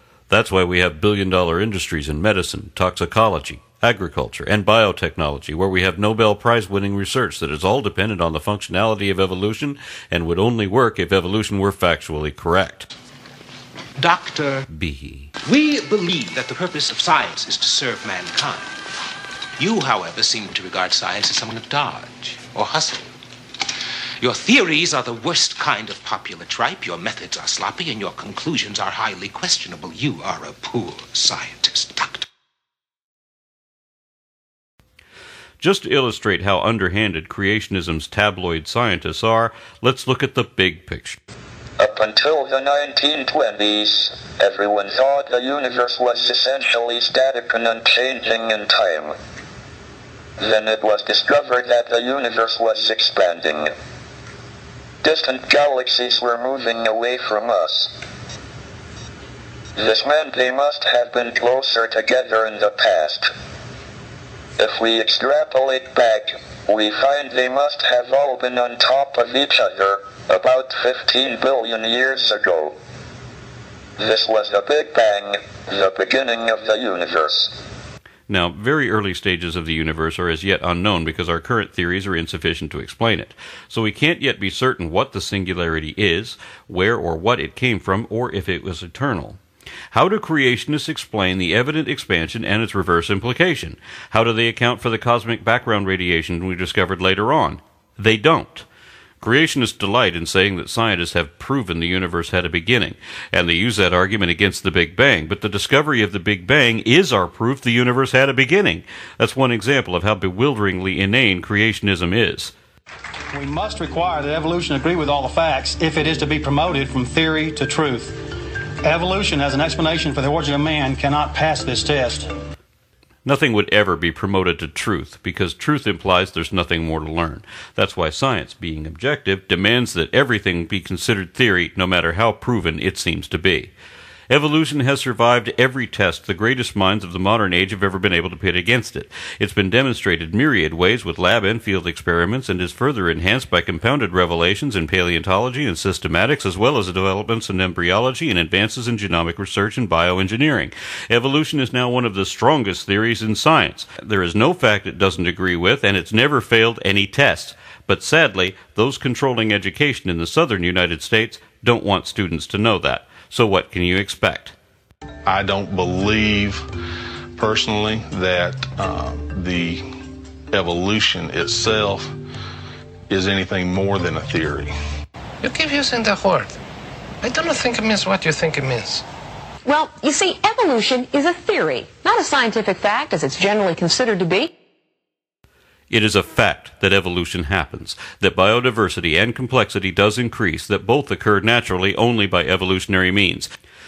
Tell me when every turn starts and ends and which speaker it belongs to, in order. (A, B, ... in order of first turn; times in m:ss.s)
0:00.3-0:12.9 A
0:14.0-0:14.7 B
0:14.7-0:15.3 A
0:15.4-0:18.8 B
0:19.6-0:23.1 B
0:24.2-0:32.3 B
0:35.6-0:41.2 A
0:41.8-0:49.2 C
0:50.4-0:53.7 C
0:55.0-0:57.9 C
0:59.8-1:03.3 C
1:04.6-1:12.8 C
1:14.0-1:17.6 C
1:18.3-1:29.4 A
1:29.9-1:38.7 A
1:39.2-1:52.5 A
1:53.3-1:58.2 D
1:58.8-2:02.3 D
2:03.2-2:13.7 A
2:14.3-2:44.6 A
2:45.3-2:46.6 E
2:47.4-2:49.8 E
2:50.5-2:52.1 E
2:53.1-2:54.7 E
2:55.4-2:56.6 F
2:57.2-2:59.0 F
2:59.6-3:04.5 G
3:05.9-3:13.5 A